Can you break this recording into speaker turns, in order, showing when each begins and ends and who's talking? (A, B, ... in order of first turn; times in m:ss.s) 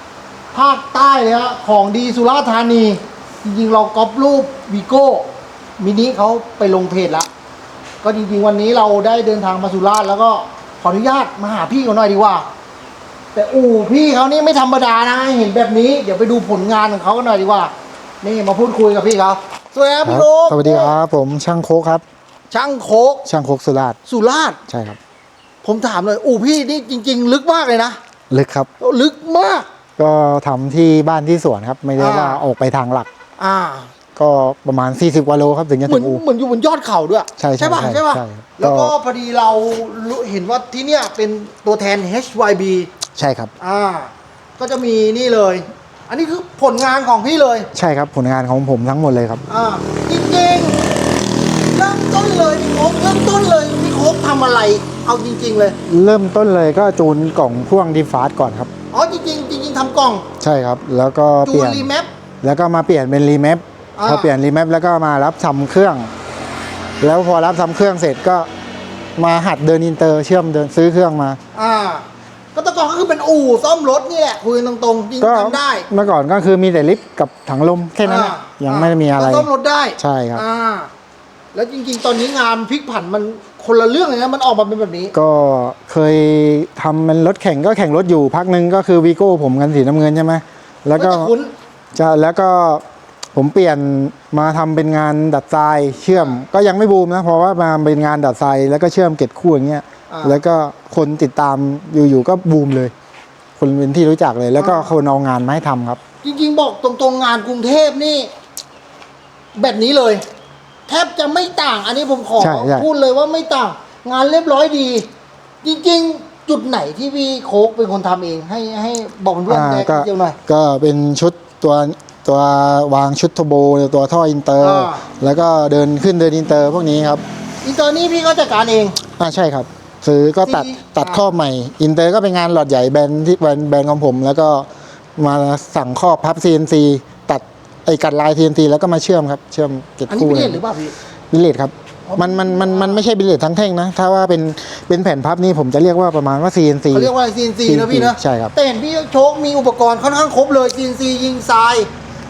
0:00.5-0:05.3 A
0:05.8-0:07.3 A
0:08.0-0:12.5 A
0:13.3-0:20.9 A
0:20.0-0:22.0 B
0:22.5-0:23.2 A
0:23.2-0:24.0 B
0:24.0-0:24.6 A
0:24.7-0:25.0 B
0:25.6-0:28.0 A
0:28.3-0:28.7 B
0:28.8-0:29.7 A
0:30.0-0:33.1 B
0:32.0-0:32.4 A
0:33.4-0:33.9 A
0:34.2-0:36.2 B
0:35.9-0:42.9 A
0:37.4-0:38.9 B
0:43.2-0:43.5 B
0:43.6-0:47.7 A
0:47.7-0:49.4 B
0:49.5-0:50.8 A
0:51.7-0:55.8 A
0:55.8-0:58.7 B
0:58.9-1:00.2 A
1:00.4-1:01.9 B
1:01.4-1:02.1 A
1:02.4-1:06.1 B
1:04.0-1:04.3 A
1:07.0-1:08.5 B
1:09.2-1:11.4 B
1:11.5-1:15.9 A
1:15.2-1:20.4 B
1:18.0-1:20.9 A
1:21.5-1:25.1 A
1:25.1-1:31.3 B
1:31.0-1:31.5 A
1:31.9-1:32.8 B
1:33.3-1:42.9 B
1:40.1-1:40.4 A
1:43.6-1:46.0 B
1:44.6-1:44.9 A
1:46.2-1:48.3 A
1:49.5-1:50.2 A
1:50.9-1:55.1 A
1:52.4-1:52.9 B
1:55.6-2:00.4 A
1:59.5-2:07.2 B
2:04.6-2:05.0 A
2:07.6-2:09.0 A
2:09.2-2:20.6 B
2:10.4-2:11.2 A
2:20.1-2:20.9 A
2:21.3-2:27.1 B
2:22.1-2:23.0 A
2:26.9-2:31.9 A
2:27.6-2:28.5 B